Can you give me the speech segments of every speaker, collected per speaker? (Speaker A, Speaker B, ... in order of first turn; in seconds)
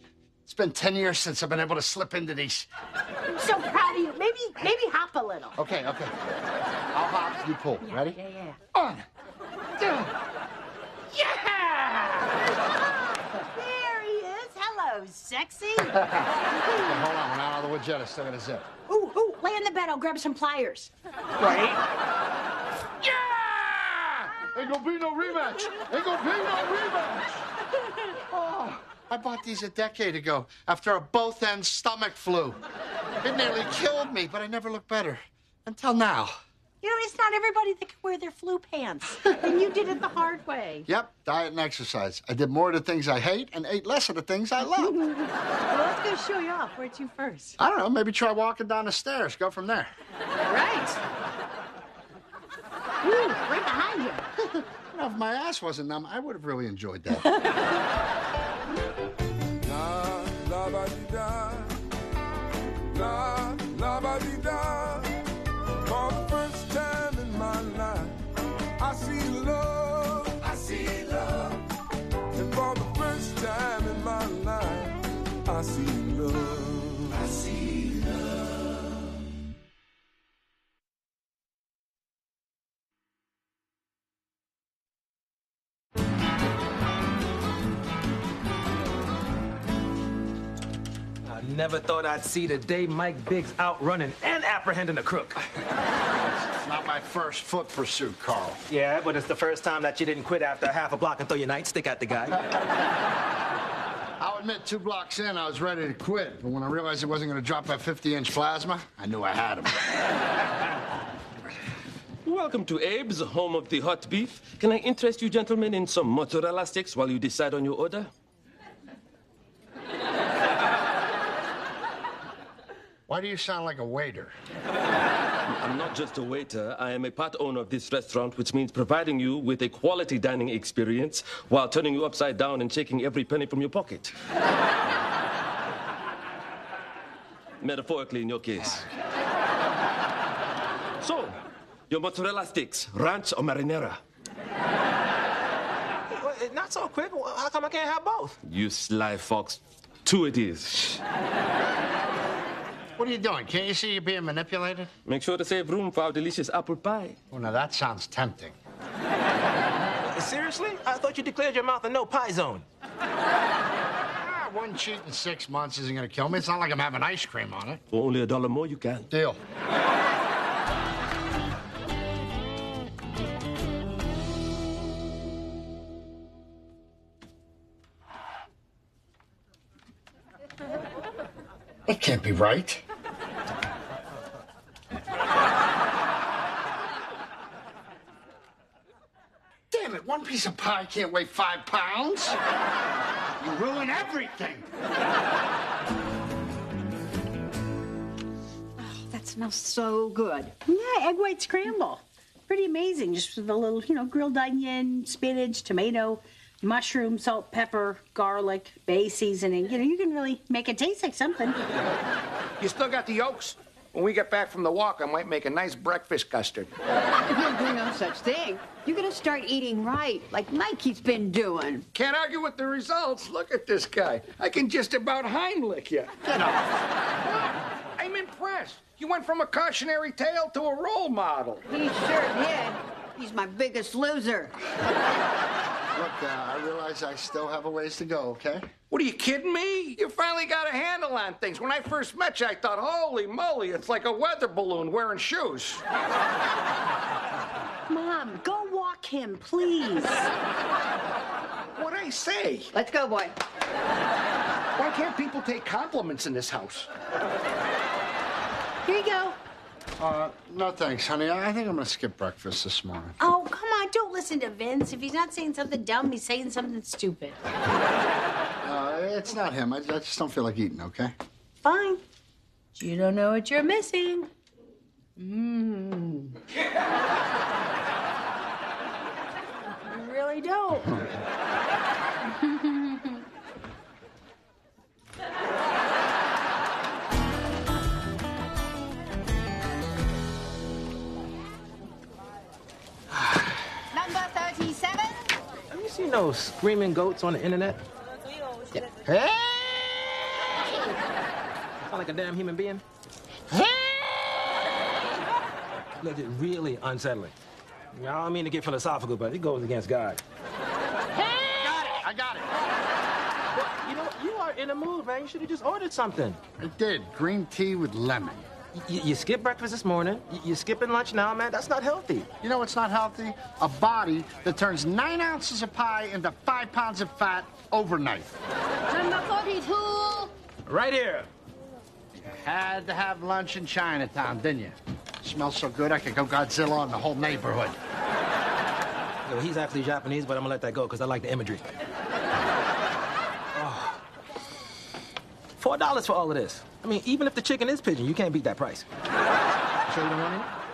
Speaker A: 0.4-2.7, 5.6-6.1, 6.9-8.2, 8.7-9.0, 9.8-10.1, 11.1-12.2, 15.9-18.7, 23.0-27.4, 28.1-32.6, 33.2-36.4, 40.9-45.0, 47.6-49.9, 54.7-57.3, 96.2-98.6, 104.2-109.9, 123.1-124.3, 153.0-154.9, 157.3-158.5, 164.1-167.8, 169.1-169.4, 181.9-182.8, 189.7-192.4, 193.4-194.7, 226.2-226.7, 235.9-238.7, 260.0-263.1, 268.6-271.1, 311.6-312.5, 316.6-318.4, 322.4-328.3, 332.1-337.8
Speaker B: 3.3-5.5, 7.8-8.6, 13.4-16.1, 16.7-17.0, 18.9-21.8, 36.8-40.9, 44.8-47.6, 50.5-51.0, 53.0-54.2, 200.6-211.6, 247.9-250.3, 258.8-259.4, 263.2-267.4, 271.6-272.0, 272.7-274.3, 275.2-276.4, 279.8-281.1, 282.4-283.2
Speaker C: 59.6-61.7, 62.9-65.1, 65.9-68.2, 68.8-71.6, 72.3-75.0, 75.5-77.3
Speaker D: 91.2-95.4, 98.7-102.4, 146.1-148.4, 160.1-162.6, 295.7-297.8, 301.9-302.8, 306.0-307.3, 307.9-310.2, 313.5-316.4, 318.8-322.3, 330.6-331.3, 339.2-341.6, 343.6-344.0, 345.6-348.8, 349.9-350.5
Speaker E: 112.2-118.1, 125.5-134.1, 137.6-138.9, 141.0-141.3, 141.9-144.0, 148.4-151.0, 155.1-157.2, 167.9-169.1
Speaker F: 198.8-200.5, 217.3-221.8, 231.7-234.5, 252.7-253.3, 293.9-295.3, 328.9-330.3
Speaker G: 212.6-216.7, 221.9-226.2, 227.3-231.6, 238.9-245.8, 251.8-252.7, 254.8-256.9